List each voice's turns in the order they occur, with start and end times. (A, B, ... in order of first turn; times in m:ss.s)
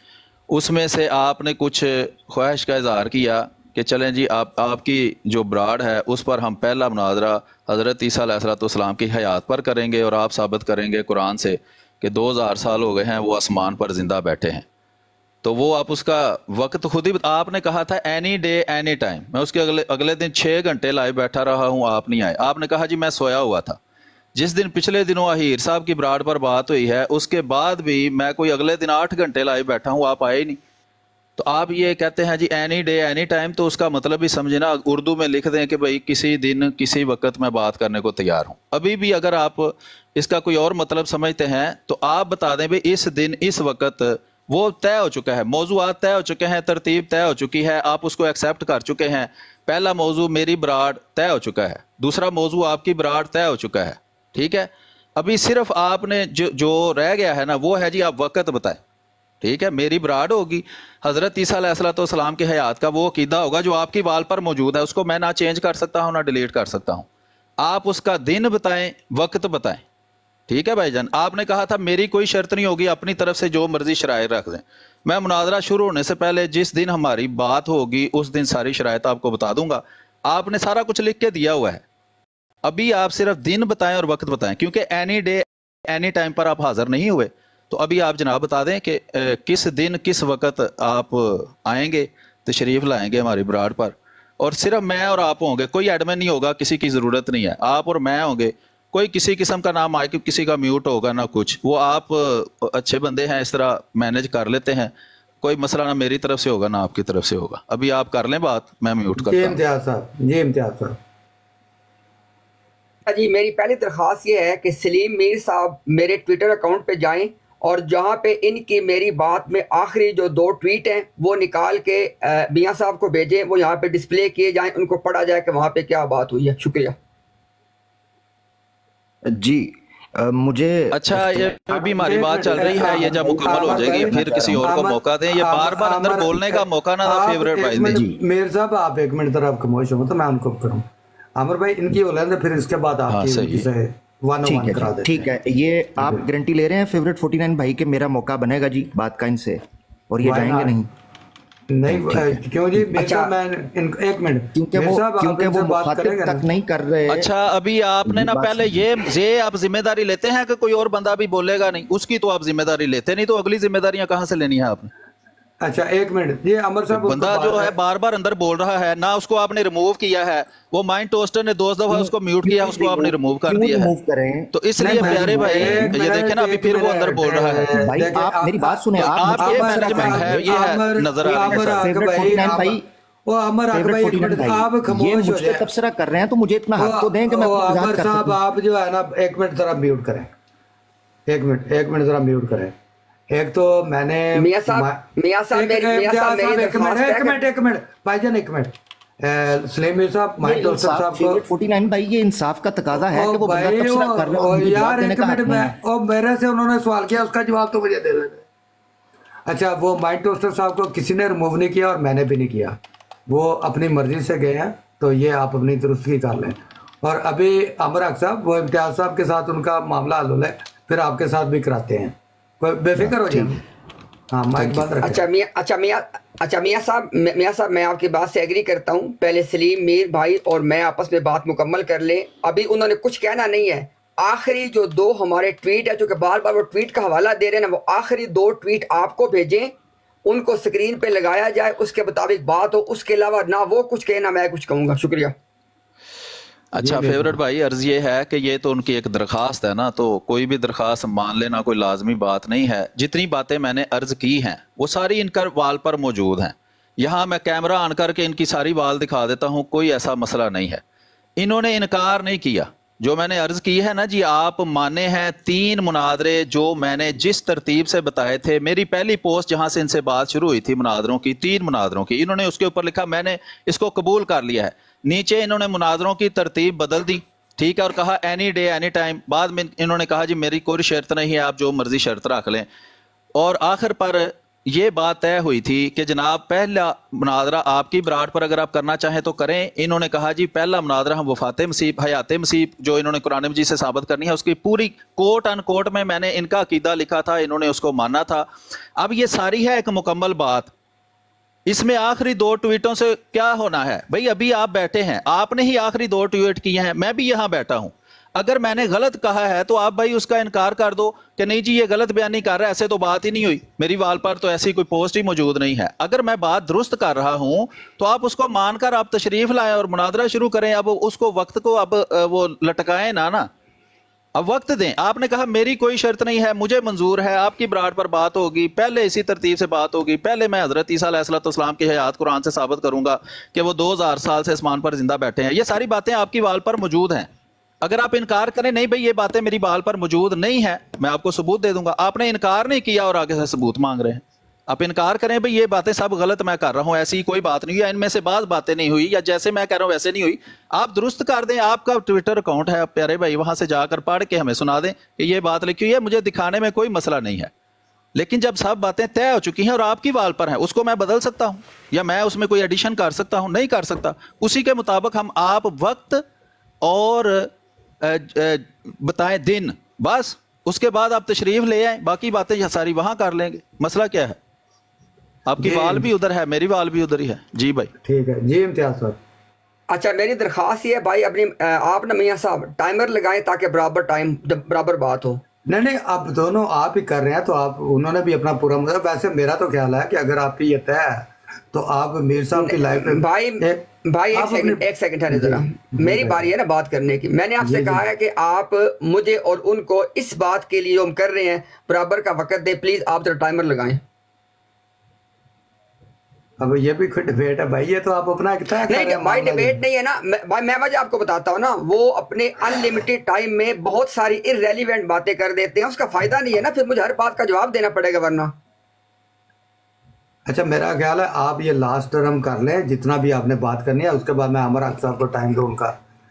0:00.5-0:14.6 A
0:15.4-0:23.8 A
0:24.3-0:30.6 A
0:31.4-0:58.8 A
0:59.4-1:07.1 A
1:07.6-1:09.8 A
1:10.5-1:21.8 A
1:22.6-1:49.6 A
1:49.2-1:51.0 B
1:53.0-2:06.9 C
2:09.2-2:14.7 D
2:10.9-2:18.0 A
2:12.0-2:25.3 B
2:17.9-2:18.2 D
2:23.1-2:23.7 A
2:24.4-2:30.9 D
2:26.0-2:26.3 B
2:30.2-2:30.7 B
2:31.7-2:36.4 B
2:31.9-2:32.4 D
2:33.0-2:33.3 C
2:34.5-2:37.3 D
2:37.1-2:44.9 A
2:38.1-2:38.8 D
2:45.6-2:47.7 B
2:46.9-2:53.9 A
2:51.9-2:56.0 D
2:54.5-2:57.7 A
2:54.8-3:05.6 B
2:57.7-3:00.7 D
2:58.9-3:01.9 A
3:01.2-3:02.8 D
3:03.7-3:08.4 D
3:06.8-3:10.3 B
3:11.3-3:12.7 B
3:13.3-3:21.4 B
3:14.3-3:17.4 C
3:20.4-3:25.7 D
3:23.0-3:28.4 B
3:29.5-3:32.8 B
3:33.3-3:43.6 B
3:43.0-3:43.6 D
3:44.3-3:45.2 B
3:44.6-3:45.0 D
3:45.0-3:59.7 C
4:00.2-4:05.3 C
4:06.7-4:20.8 A
4:06.8-4:07.4 B
4:21.4-4:42.7 A
4:43.3-5:00.7 A
5:01.7-5:23.5 A
5:24.3-5:37.3 A
5:37.8-5:57.5 A
5:58.1-6:06.2 A
6:06.8-6:07.5 A
6:08.0-6:14.4 A
6:15.4-6:17.9 A
6:15.6-6:16.1 B
6:18.0-6:19.2 B
6:19.9-6:25.4 C
6:25.7-6:36.4 B
6:32.5-6:44.0 C
6:37.6-6:38.0 B
6:46.6-6:49.8 B
6:48.9-6:58.5 C
7:00.5-7:05.9 B